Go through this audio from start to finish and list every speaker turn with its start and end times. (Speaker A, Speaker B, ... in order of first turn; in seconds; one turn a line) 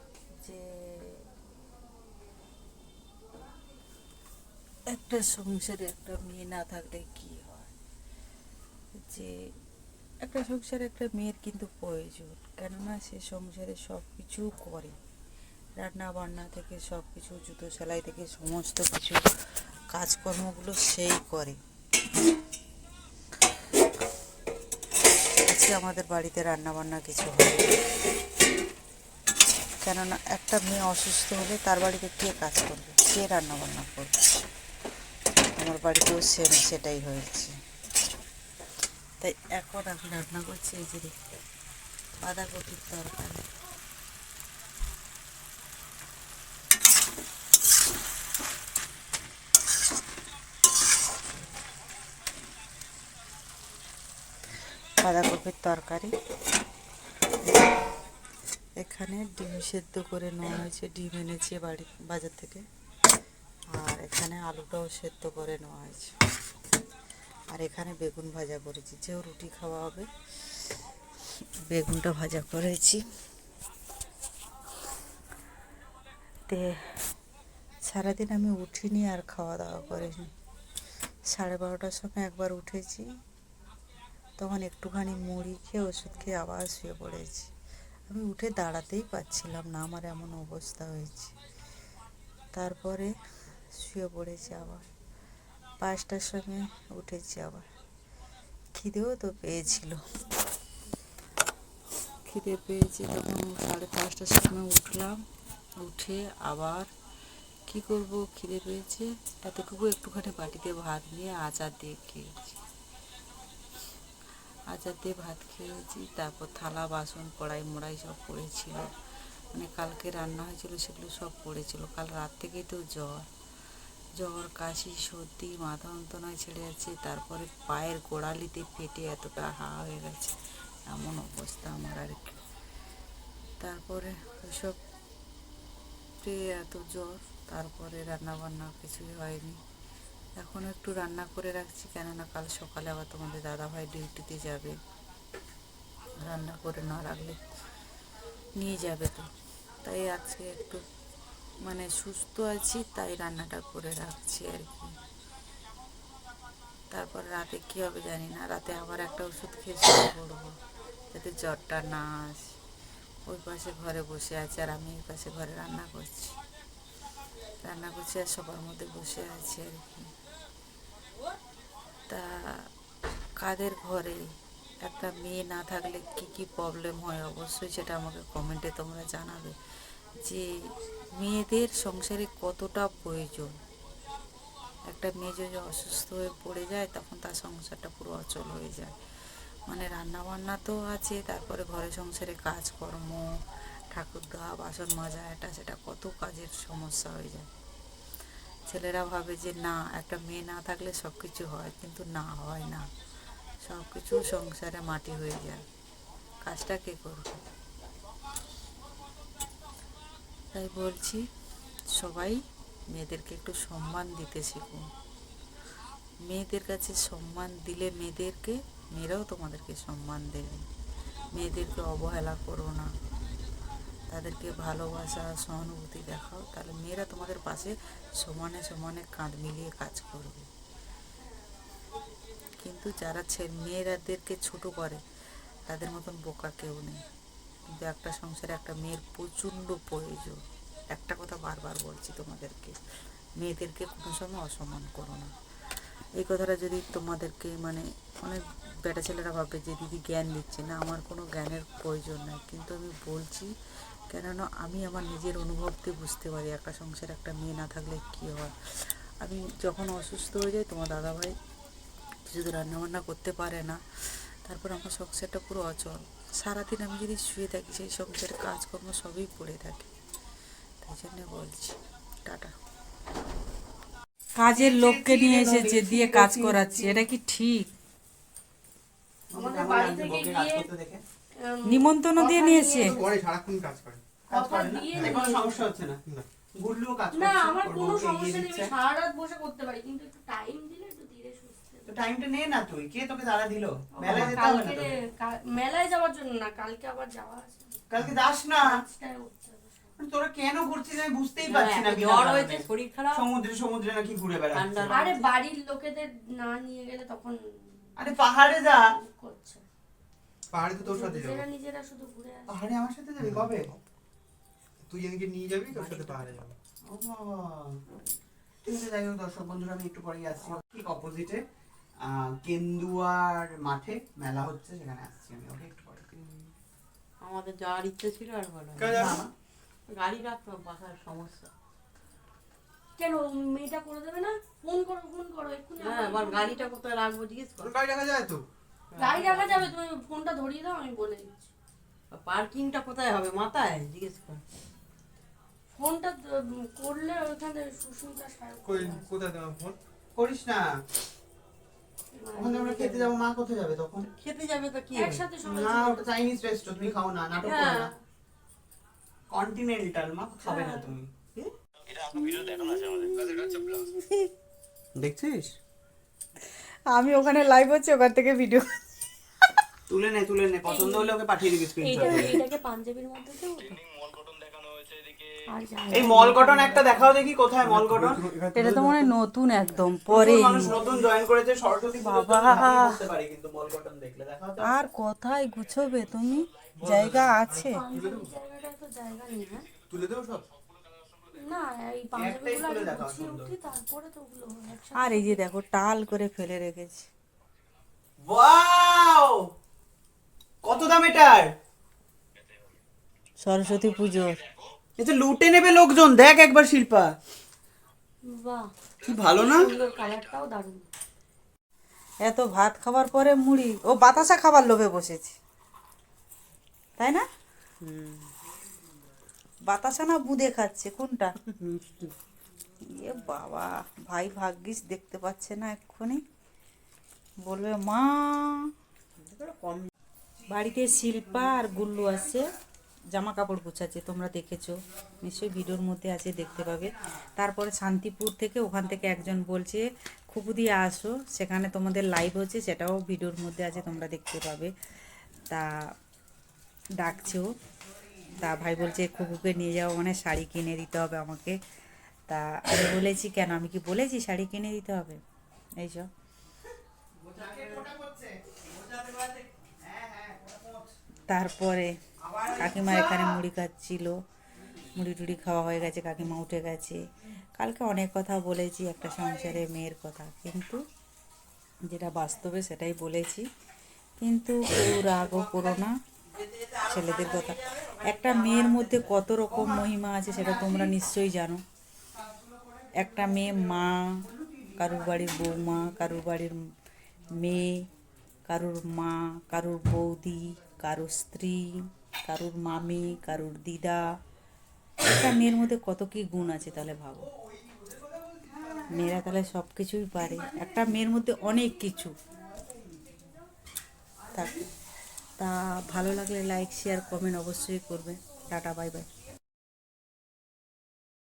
Speaker A: 0.4-1.2
Speaker A: 4.9-7.7
Speaker A: 9.0-9.3
Speaker A: 10.2-15.0
Speaker A: 15.8-19.3
Speaker A: 19.9-21.6
Speaker A: 25.5-27.8
Speaker A: 29.8-34.1
Speaker A: 35.6-37.6
Speaker A: 39.2-41.1
Speaker A: 42.2-43.5
Speaker A: 55.0-56.1
Speaker A: 58.8-62.6
Speaker A: 63.7-66.2
Speaker A: 67.5-70.1
Speaker A: 71.7-73.0
Speaker A: 76.5-76.8
Speaker A: 77.8-80.3
Speaker A: 81.3-83.1
Speaker A: 84.4-87.5
Speaker A: 88.1-91.3
Speaker A: 92.5-93.1
Speaker A: 93.7-94.9
Speaker A: 95.8-97.7
Speaker A: 98.7-100.0
Speaker A: 102.2-105.2
Speaker A: 105.8-106.9
Speaker A: 107.7-112.6
Speaker A: 114.7-118.9
Speaker A: 119.5-123.3
Speaker A: 124.2-130.4
Speaker A: 130.9-132.4
Speaker A: 133.6-134.8
Speaker A: 136.2-139.6
Speaker A: 140.4-144.8
Speaker A: 146.2-147.4
Speaker A: 148.6-149.3
Speaker A: 149.8-150.8
Speaker A: 151.6-154.9
Speaker A: 156.9-160.6
Speaker A: 161.1-162.5
Speaker A: 163.3-166.4
Speaker A: 167.6-170.1
Speaker A: 172.1-172.7
Speaker A: 173.4-174.2
Speaker A: 174.8-179.6
Speaker A: 180.2-180.5
Speaker A: 181.2-183.6
Speaker A: 184.9-188.9
Speaker A: 189.7-193.3
Speaker A: 193.9-197.5
Speaker A: 198.7-202.9
Speaker A: 203.6-205.7
Speaker A: 206.4-207.4
Speaker A: 210.5-211.2
Speaker A: 211.9-214.9
Speaker A: 216.2-220.7
Speaker A: 221.3-222.9
Speaker A: 224.1-230.5
Speaker A: 232.6-235.0
Speaker A: 235.7-237.0
Speaker A: 237.7-240.4
Speaker A: 240.9-242.8
Speaker A: 243.4-245.3
Speaker A: 246.2-253.5
Speaker A: 254.1-261.4
Speaker A: 262.3-269.9
Speaker A: 270.8-272.5
Speaker A: 274.4-277.7
Speaker B: 274.5-277.0
Speaker B: 279.3-281.0
Speaker C: 279.3-280.7
Speaker C: 281.4-283.1
Speaker A: 281.7-282.9
Speaker D: 282.9-284.2
Speaker C: 284.3-285.6
Speaker B: 284.3-286.0
Speaker B: 286.6-288.7
Speaker C: 287.1-291.9
Speaker B: 291.9-294.9
Speaker C: 293.9-297.8
Speaker B: 297.9-298.8
Speaker C: 298.6-299.9
Speaker B: 300.0-305.0
Speaker E: 301.4-303.3
Speaker E: 304.5-305.3
Speaker C: 304.9-308.0
Speaker B: 308.0-308.9
Speaker C: 308.7-309.6
Speaker D: 310.5-311.5
Speaker C: 310.8-312.5
Speaker B: 312.5-313.7
Speaker D: 313.2-313.8
Speaker D: 314.9-316.5
Speaker B: 315.7-317.8
Speaker B: 318.6-321.4
Speaker B: 322.0-326.2
Speaker E: 326.2-326.5
Speaker E: 327.2-329.2
Speaker D: 328.8-329.2
Speaker B: 328.9-329.3
Speaker E: 329.9-331.5
Speaker C: 333.0-336.7
Speaker E: 335.8-337.8
Speaker D: 337.6-338.5
Speaker E: 338.9-339.7
Speaker C: 339.0-341.5
Speaker E: 342.1-344.4
Speaker C: 345.8-349.1
Speaker D: 348.6-349.8
Speaker B: 350.1-350.7
Speaker C: 352.2-353.1
Speaker B: 352.4-354.1
Speaker E: 354.2-355.3
Speaker C: 354.9-356.1
Speaker B: 355.4-357.9
Speaker C: 357.4-358.0
Speaker B: 359.3-361.3
Speaker E: 360.4-360.9
Speaker A: 362.0-364.3
Speaker B: 364.9-365.6
Speaker A: 366.9-368.7
Speaker B: 369.9-372.4
Speaker C: 370.7-371.2
Speaker C: 371.8-373.8
Speaker C: 375.5-377.1
Speaker B: 375.9-378.2
Speaker D: 377.6-379.1
Speaker A: 378.5-380.8
Speaker B: 380.1-384.7
Speaker A: 382.0-383.0
Speaker A: 384.6-387.8
Speaker D: 386.8-388.3
Speaker C: 387.7-389.7
Speaker D: 389.9-390.5
Speaker C: 391.3-395.5
Speaker B: 392.2-393.5
Speaker A: 394.9-397.1
Speaker B: 398.2-399.5
Speaker B: 400.6-401.5
Speaker A: 403.4-404.5
Speaker B: 405.0-407.1
Speaker C: 408.2-408.7
Speaker B: 409.0-409.7
Speaker C: 409.3-410.9
Speaker A: 412.2-415.4
Speaker A: 417.0-417.2
Speaker E: 417.8-418.3
Speaker A: 419.7-421.3
Speaker E: 421.5-422.1
Speaker A: 422.9-426.2
Speaker A: 427.4-428.7
Speaker E: 429.2-429.9
Speaker A: 430.5-432.5
Speaker A: 433.1-444.7
Speaker A: 447.0-447.5
Speaker A: 448.4-451.6
Speaker A: 452.3-455.2
Speaker A: 455.8-456.1
Speaker B: 457.3-458.4
Speaker B: 459.8-460.9
Speaker A: 461.3-462.0
Speaker B: 462.3-463.2
Speaker A: 462.5-464.2
Speaker A: 464.8-467.0
Speaker A: 467.6-470.8
Speaker A: 471.9-473.5
Speaker A: 474.2-475.9
Speaker A: 476.7-481.6
Speaker A: 482.9-486.6
Speaker A: 487.4-487.9
Speaker A: 488.5-494.1
Speaker A: 495.0-497.3
Speaker B: 498.3-498.8
Speaker A: 498.9-502.1
Speaker A: 504.3-504.6
Speaker A: 505.4-509.1